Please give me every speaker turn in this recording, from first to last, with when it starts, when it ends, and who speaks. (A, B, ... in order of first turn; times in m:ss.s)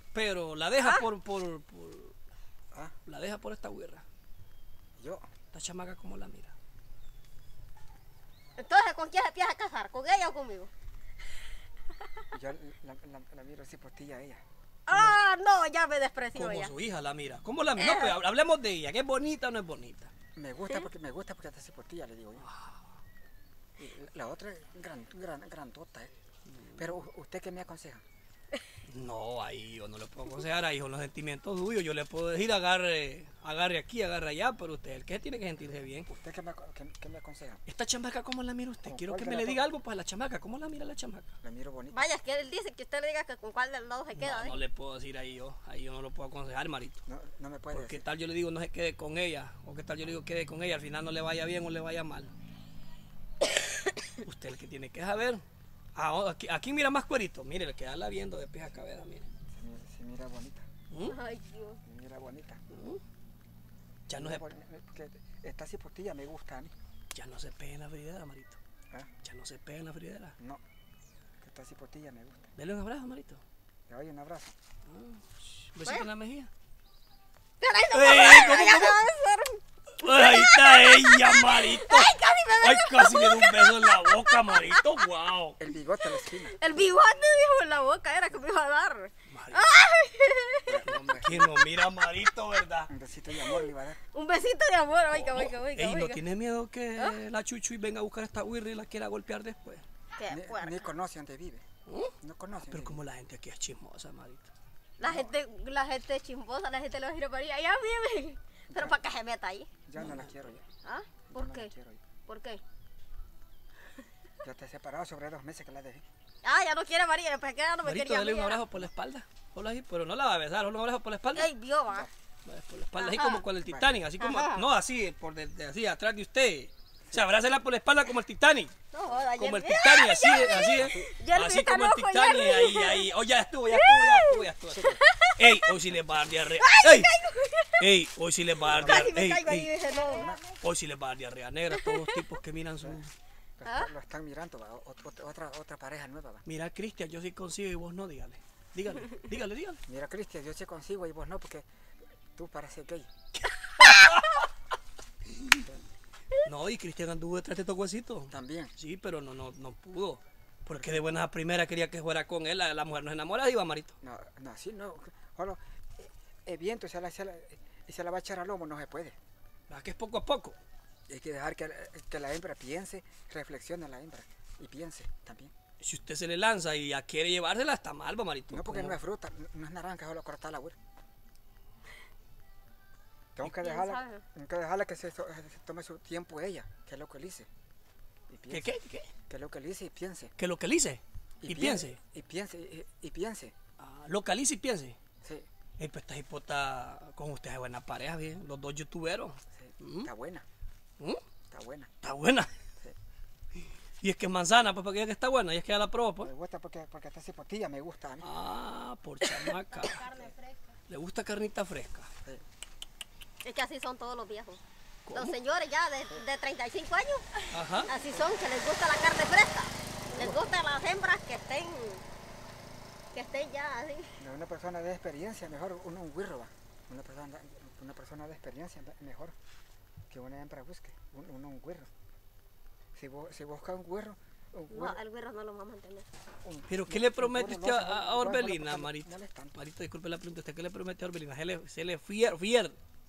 0:00.1-0:02.2 A
0:00.8-0:01.0 B
0:03.0-0:04.0 A
0:05.0-0:05.2 C
0:05.5-0:06.5 A
0:08.6-0:10.7 B
0:12.3-0:14.4 C
0:14.9-0:16.7 B
0:16.3-0:20.1 A
0:17.8-0:18.2 B
0:20.3-0:22.5 C
0:22.4-0:22.8 A
0:23.8-0:26.1 C
0:26.5-0:26.8 A
0:26.8-0:28.0 C
0:28.8-0:36.1 A
0:36.1-0:37.6 C
0:37.6-0:41.3 A
0:38.8-0:39.6 C
0:41.4-0:42.1 C
0:41.9-0:44.6 B
0:44.2-0:47.0 A
0:47.1-0:48.0 C
0:47.7-0:52.3 A
0:53.6-0:53.9 B
0:54.2-0:55.4 A
0:55.9-0:59.3 A
0:59.5-1:00.7 C
1:00.9-1:01.2 A
1:01.0-1:01.8 B
1:01.8-1:02.6 C
1:02.7-1:03.0 A
1:04.1-1:04.4 A
1:04.1-1:06.7 C
1:07.1-1:08.6 A
1:09.2-1:10.4 A
1:11.4-1:12.5 C
1:12.6-1:13.4 A
1:13.9-1:14.5 C
1:14.9-1:16.5 A
1:17.6-1:24.9 B
1:17.9-1:19.0 A
1:20.0-1:25.6 A
1:25.6-1:26.6 C
1:26.2-1:30.8 B
1:29.3-1:29.7 A
1:30.6-1:31.5 C
1:30.8-1:32.9 A
1:32.9-1:34.0 C
1:33.3-1:36.2 B
1:35.1-1:39.8 A
1:40.2-1:40.9 B
1:40.3-1:41.6 C
1:41.9-1:44.5 A
1:42.2-1:43.0 C
1:45.0-1:49.7 B
1:45.0-1:45.3 C
1:48.7-1:49.0 C
1:49.8-1:50.6 C
1:50.0-1:50.4 A
1:50.8-1:51.7 B
1:51.3-1:52.0 C
1:52.3-1:52.6 B
1:54.4-1:56.0 C
1:56.4-1:58.6 B
1:57.8-2:01.5 A
2:01.3-2:02.1 B
2:02.4-2:08.7 A
2:03.0-2:03.4 B
2:03.6-2:03.9 C
2:04.2-2:04.7 B
2:08.9-2:13.1 B
2:09.4-2:17.1 A
2:10.8-2:11.1 C
2:13.7-2:15.5 B
2:14.7-2:15.0 C
2:16.5-2:17.9 B
2:17.8-2:19.7 A
2:18.7-2:19.1 C
2:18.7-2:20.3 B
2:20.0-2:20.4 C
2:20.6-2:23.1 A
2:21.8-2:22.2 B
2:23.6-2:26.4 C
2:23.6-2:23.9 B
2:26.4-2:29.8 A
2:29.9-2:31.6 C
2:32.3-2:33.1 C
2:33.8-2:34.5 A
2:35.3-2:35.6 A
2:36.4-2:43.9 A
2:38.3-2:38.7 C
2:40.7-2:41.2 C
2:44.0-2:49.2 C
2:49.7-2:50.6 A
2:51.1-2:55.5 C
2:55.8-2:59.0 A
2:58.5-3:00.8 C
3:03.3-3:07.5 C
3:03.6-3:04.2 B
3:08.3-3:10.3 C
3:08.5-3:09.1 A
3:10.4-3:12.0 A
3:11.4-3:13.5 C
3:13.8-3:15.0 A
3:15.2-3:15.5 C
3:15.8-3:20.1 A
3:19.5-3:20.4 C
3:21.5-3:21.9 C
3:22.0-3:22.5 A
3:23.6-3:26.3 A
3:26.2-3:28.3 C
3:28.2-3:30.1 A
3:29.2-3:30.3 B
3:30.9-3:32.1 A
3:33.4-3:34.6 B
3:35.0-3:35.3 A
3:35.1-3:42.0 B
3:37.5-3:37.9 A
3:40.1-3:40.4 C
3:43.1-3:44.2 B
3:44.2-3:49.3 C
3:50.1-3:51.9 C
3:52.9-3:55.0 C
3:54.7-3:56.0 B
3:56.4-3:59.6 C
3:56.7-4:02.8 A